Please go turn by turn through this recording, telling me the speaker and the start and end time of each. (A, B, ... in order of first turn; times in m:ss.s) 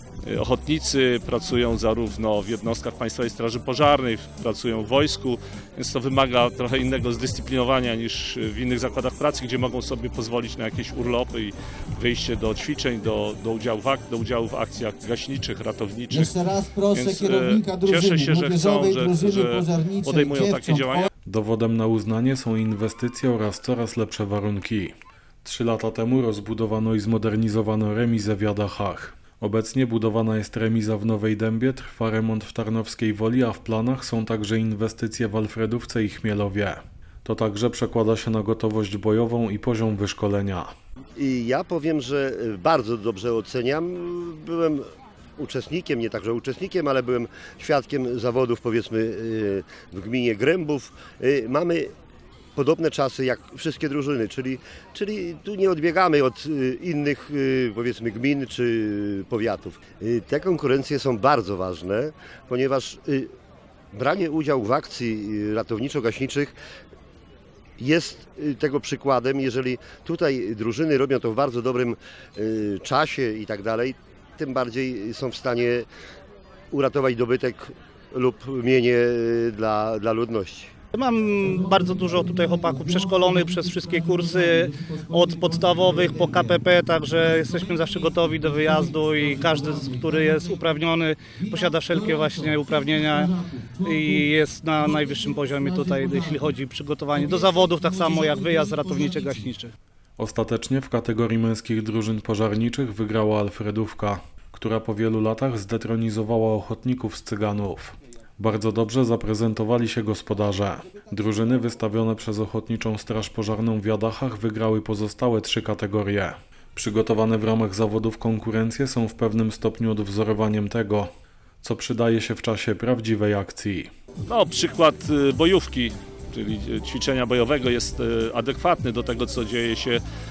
0:00.2-0:16.4 A
0:16.1-0:21.1 B
0:16.9-0:21.1 A
0:21.3-0:40.7 C
0:41.2-0:51.9 D
0:52.6-1:03.3 D
1:03.9-1:06.6 D
1:07.8-1:15.9 D
1:16.7-1:20.7 D
1:20.9-1:39.7 E
1:21.3-1:36.6 B
1:37.1-1:39.6 B
1:40.2-2:01.1 C
2:01.6-2:03.9 C
2:04.2-2:10.0 A